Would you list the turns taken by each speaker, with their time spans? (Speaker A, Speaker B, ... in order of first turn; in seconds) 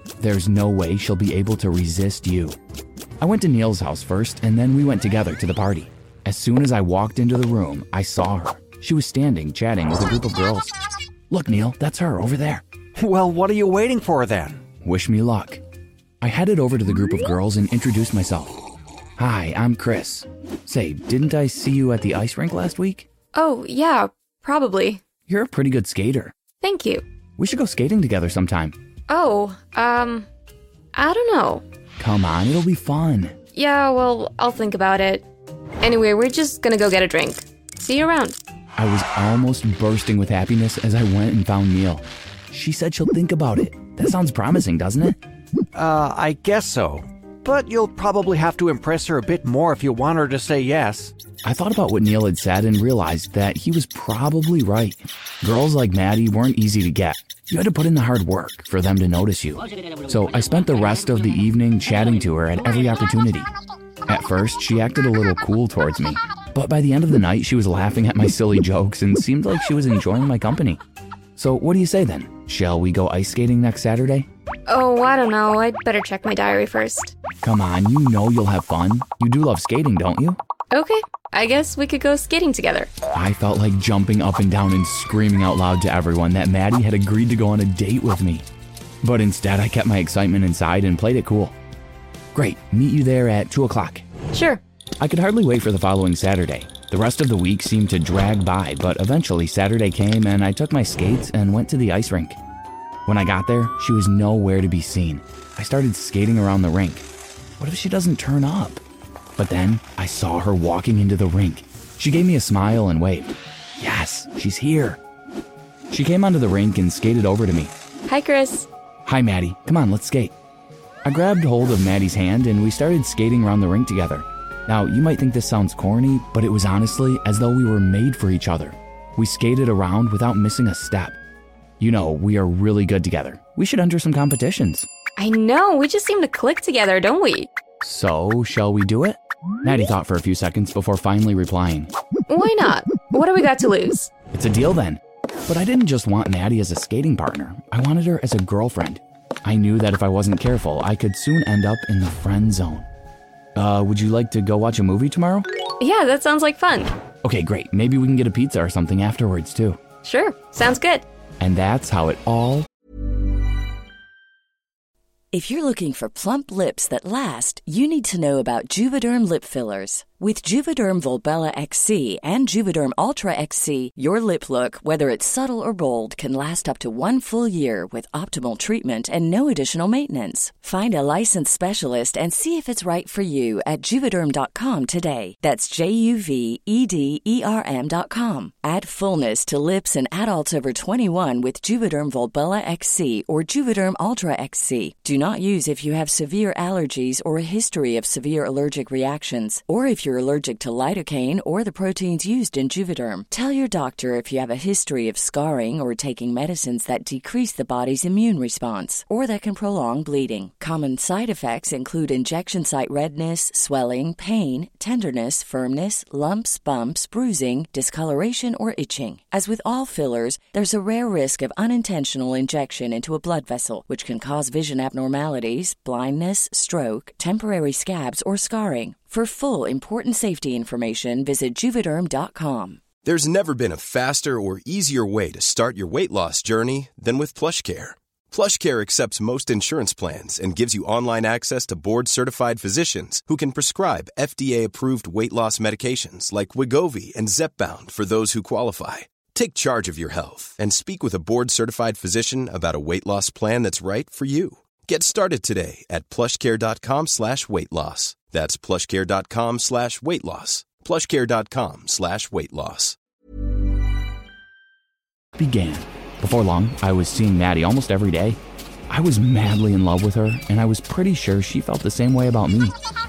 Speaker A: 0.2-2.6, 3.2-10.7, 11.3-12.6, 14.8-15.6, 16.2-18.5, 19.2-23.1, 25.3-26.3, 27.4-28.8, 32.0-33.4, 38.8-45.2, 51.4-63.5, 64.1-70.8, 71.4-74.3, 77.4-80.4, 83.1-88.5, 89.0-91.5, 92.3-94.0, 95.0-102.4, 103.1-107.1, 107.6-108.8, 109.4-115.0, 115.9-117.7, 119.1-120.3, 121.0-131.2, 131.8-134.9, 137.8-141.9, 144.3-152.8, 153.6-155.5, 157.2-159.8, 161.4-162.7, 265.4-268.4, 268.9-272.8
Speaker B: 13.0-14.6, 45.8-51.1
Speaker C: 23.3-25.0, 26.6-27.0, 29.1-30.3, 30.9-31.6, 33.5-35.2, 35.8-38.4, 74.7-77.1, 80.7-82.9, 94.3-94.6, 118.1-118.7, 135.2-137.5, 142.3-144.1, 155.8-156.9, 160.0-161.1
Speaker D: 165.3-232.8
Speaker E: 233.1-262.9